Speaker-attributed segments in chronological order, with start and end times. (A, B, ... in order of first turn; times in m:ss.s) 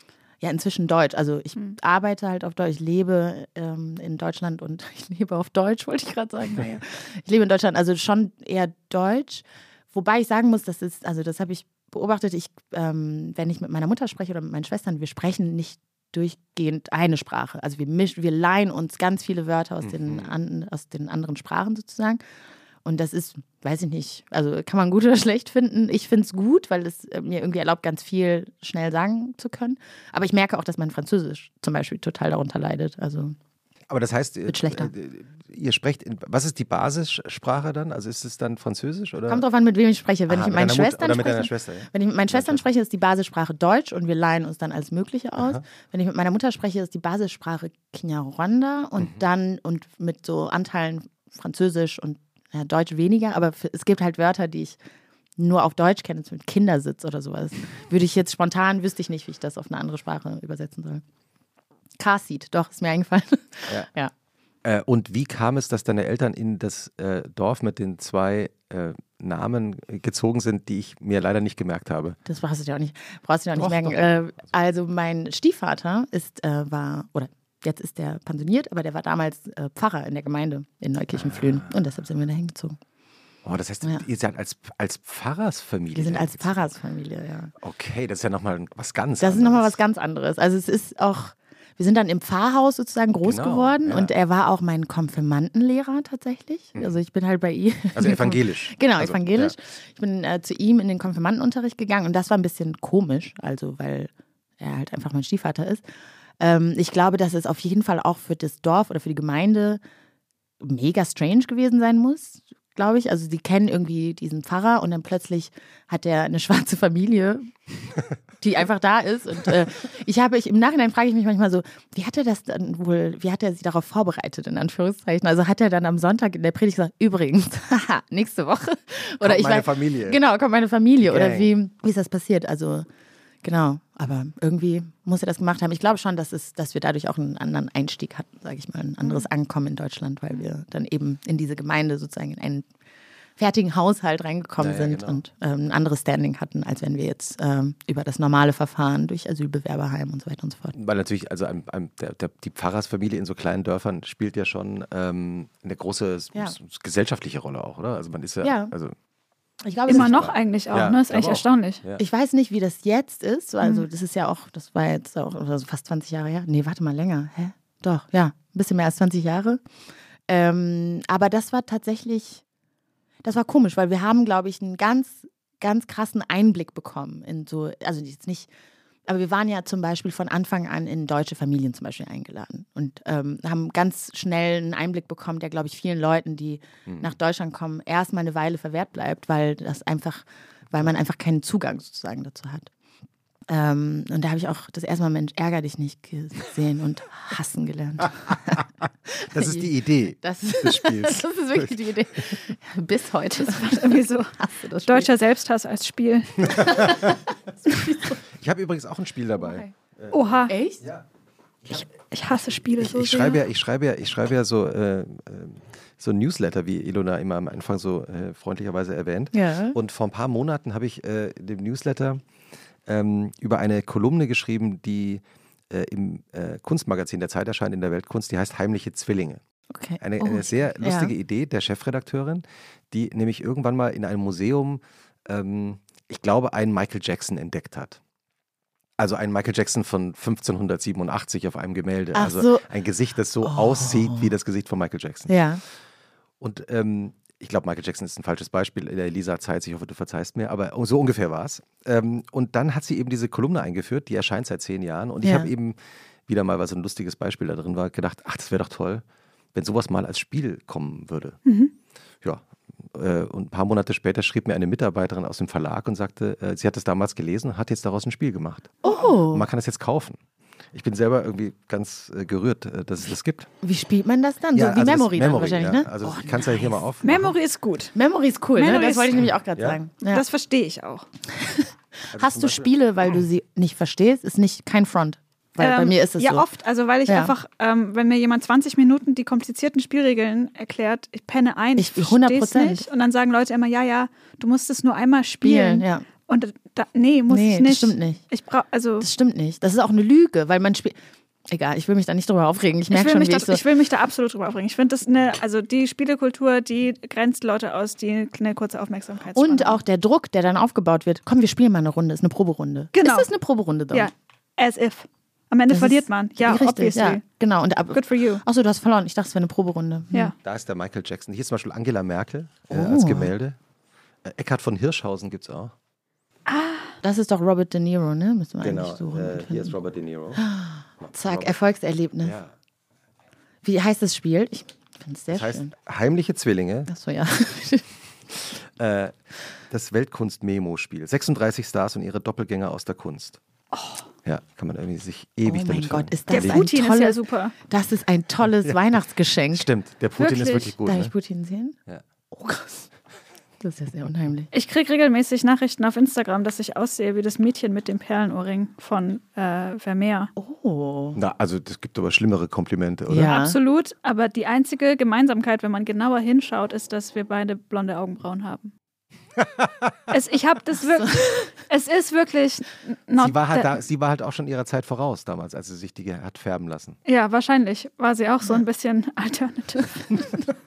0:00.4-0:22.2 A
0:19.8-0:20.3 B
0:22.8-0:33.4 A
0:33.9-0:39.4 B
0:34.5-0:34.9 A
0:39.3-0:54.8 A
0:40.3-0:42.6 B
0:55.4-1:01.0 A
1:02.0-1:04.1 A
1:04.6-1:12.2 B
1:12.3-1:22.8 A
1:13.6-1:14.2 B
1:21.2-1:21.7 B
1:23.4-1:26.7 B
1:26.0-1:27.5 A
1:27.6-1:29.8 B
1:29.2-1:45.8 A
1:33.2-1:34.1 B
1:37.9-1:39.5 B
1:46.4-1:49.8 A
1:50.6-1:57.5 A
1:58.4-2:12.9 A
2:09.2-2:10.2 B
2:11.0-2:11.5 B
2:13.4-2:22.7 A
2:23.4-2:30.8 A
2:24.6-2:25.2 B
2:30.7-2:39.0 B
2:38.4-2:38.7 A
2:39.6-2:40.3 A
2:39.9-2:41.8 C
2:39.9-2:42.0 B
2:42.0-2:49.6 A
2:50.3-2:52.4 A
2:53.2-2:58.5 A
2:59.1-3:12.7 A
3:13.5-3:25.1 A
3:19.3-3:21.7 B
3:23.4-3:24.3 C
3:24.8-3:26.8 C
3:26.6-3:26.9 B
3:26.6-3:27.1 A
3:27.7-3:28.2 A
3:28.2-3:31.0 B
3:29.4-3:29.7 A
3:30.1-3:30.5 C
3:30.5-3:30.9 A
3:31.8-3:33.4 C
3:32.8-3:42.2 B
3:39.3-3:39.8 A
3:42.9-3:49.4 B
3:49.7-3:51.1 A
3:50.0-3:58.0 B
3:59.0-4:05.4 B
4:02.1-4:02.6 A
4:03.4-4:04.3 A
4:05.3-4:05.6 A
4:06.4-4:21.4 B
4:15.2-4:15.5 A
4:21.5-4:21.7 C
4:22.2-4:30.2 B
4:28.8-4:29.5 A
4:30.7-4:33.5 B
4:33.6-4:36.8 A
4:34.6-4:37.3 B
4:37.0-4:37.9 C
4:38.0-4:40.2 A
4:38.6-4:39.2 C
4:40.1-4:41.1 C
4:41.3-4:46.5 A
4:42.1-4:42.7 B
4:45.6-4:59.1 C
4:47.1-4:47.3 A
4:51.8-4:52.8 A
4:55.4-4:56.0 A
4:57.3-4:58.2 A
4:59.0-5:01.0 A
5:01.5-5:03.6 A
5:02.9-5:09.8 C
5:09.4-5:14.1 A
5:13.0-5:13.3 C
5:13.9-5:17.2 C
5:15.7-5:20.3 A
5:17.9-5:18.4 C
5:20.4-5:23.6 B
5:22.7-5:23.3 A
5:24.2-5:25.7 B
5:26.5-5:27.0 C
5:27.0-5:29.8 A
5:28.6-5:30.4 B
5:30.4-5:32.4 A
5:31.0-5:31.5 B
5:32.2-5:32.5 B
5:33.6-5:35.7 A
5:35.3-5:36.9 B
5:36.9-5:37.9 A
5:38.6-5:39.2 B
5:39.7-5:43.4 B
5:43.7-5:44.1 C
5:44.2-5:46.7 B
5:45.5-5:49.7 A
5:46.3-5:47.5 C
5:49.5-5:51.1 B
5:50.2-5:50.7 C
5:50.8-5:51.8 A
5:52.3-5:52.9 A
5:53.6-5:54.5 A
5:54.5-6:00.3 C
6:00.4-6:01.2 A
6:01.2-6:03.4 B
6:03.1-6:03.6 A
6:03.2-6:08.7 C
6:09.4-6:09.9 B
6:10.1-6:13.7 C
6:11.0-6:11.5 A
6:13.2-6:17.0 B
6:17.1-6:20.4 C